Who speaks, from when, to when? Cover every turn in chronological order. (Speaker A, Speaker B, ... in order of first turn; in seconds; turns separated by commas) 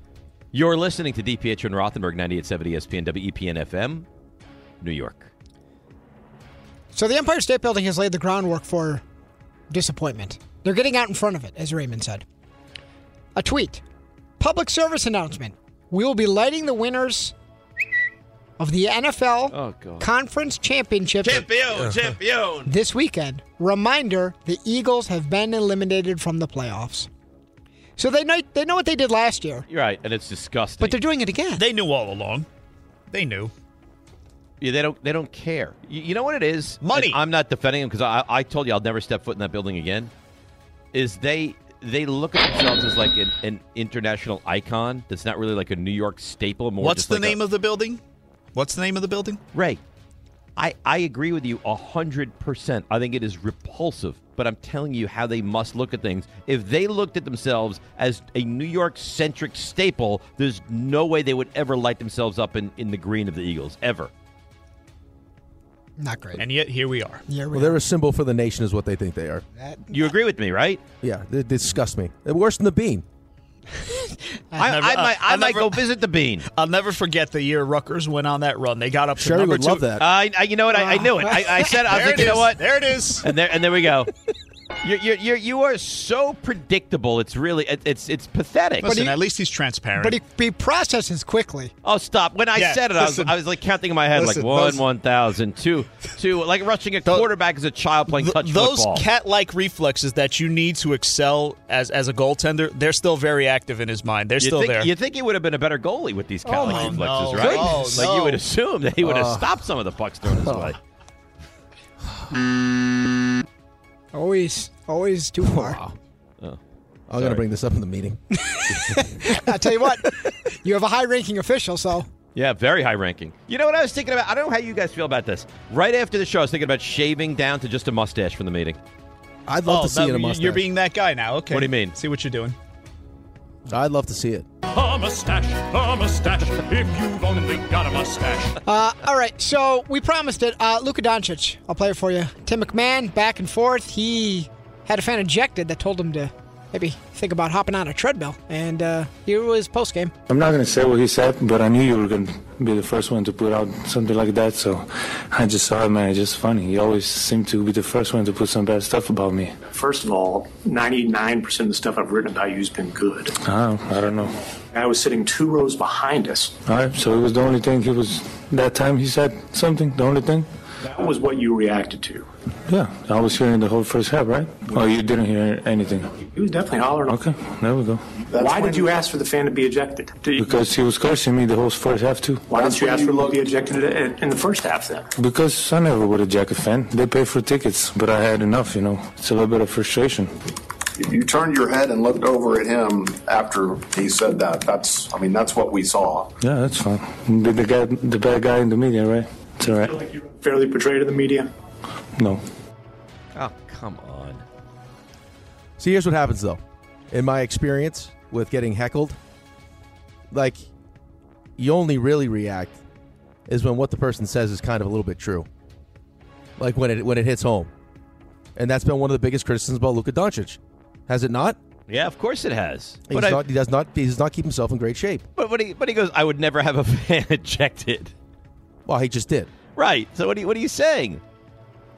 Speaker A: 0.5-4.0, Speaker A: 4.8-5.3, Speaker B: 6.9-9.0, Speaker B: 9.7-12.2, Speaker B: 13.3-13.8, Speaker B: 14.4-17.3, Speaker B: 18.6-21.5, Speaker A: 19.5-20.1, Speaker A: 21.2-22.7, Speaker B: 22.6-27.1, Speaker B: 28.0-29.6, Speaker A: 29.7-31.0, Speaker B: 30.8-31.6, Speaker C: 31.6-32.5, Speaker C: 33.1-33.5, Speaker A: 34.6-40.1, Speaker C: 36.8-37.2, Speaker A: 40.9-47.4, Speaker C: 46.8-48.0, Speaker C: 48.5-49.4, Speaker A: 49.5-49.8, Speaker A: 50.5-64.1, Speaker B: 66.0-66.4, Speaker C: 66.3-67.2, Speaker B: 67.3-67.8, Speaker D: 67.5-69.4, Speaker B: 69.6-70.1, Speaker A: 69.9-70.8, Speaker D: 71.0-73.0, Speaker A: 74.6-76.5, Speaker C: 74.6-75.8, Speaker C: 76.5-79.9, Speaker D: 79.2-80.0, Speaker A: 80.0-84.1, Speaker B: 80.7-82.1, Speaker C: 81.8-83.3, Speaker A: 84.8-88.9, Speaker C: 88.8-90.2, Speaker B: 88.8-89.1, Speaker B: 90.0-91.7, Speaker A: 91.8-99.0, Speaker C: 92.5-93.3, Speaker C: 98.1-104.9, Speaker A: 104.4-110.8, Speaker C: 106.5-108.4, Speaker B: 106.5-107.0, Speaker D: 107.4-107.8, Speaker D: 109.0-109.5, Speaker D: 110.3-110.8, Speaker B: 114.1-115.8, Speaker D: 115.4-116.0, Speaker D: 117.1-118.2, Speaker A: 117.2-117.4, Speaker B: 118.3-122.0, Speaker A: 122.3-128.8, Speaker D: 129.5-130.7, Speaker C: 129.7-132.6, Speaker A: 131.5-131.9, Speaker D: 133.7-134.4, Speaker E: 134.7-138.6, Speaker B: 138.6-150.1, Speaker F: 150.3-159.6, Speaker G: 159.6-163.3, Speaker F: 163.4-164.3, Speaker G: 164.7-166.6, Speaker F: 166.7-170.5, Speaker G: 170.8-172.3, Speaker F: 172.7-176.2, Speaker G: 176.2-177.2, Speaker F: 177.1-178.0, Speaker H: 178.3-178.8, Speaker G: 178.3-180.6, Speaker F: 180.4-182.6, Speaker G: 182.5-185.1, Speaker H: 182.7-183.2, Speaker F: 185.2-190.3, Speaker H: 191.0-196.3, Speaker F: 196.4-199.9, Speaker G: 199.8-201.5, Speaker F: 202.2-202.4, Speaker A: 203.3-204.4, Speaker D: 205.8-209.2, Speaker D: 210.3-210.7, Speaker D: 211.6-212.8, Speaker D: 213.5-215.5, Speaker D: 216.6-217.7, Speaker D: 218.6-221.6, Speaker A: 221.9-223.4, Speaker D: 223.1-225.3, Speaker A: 225.4-228.1, Speaker D: 228.8-229.5, Speaker A: 229.8-231.2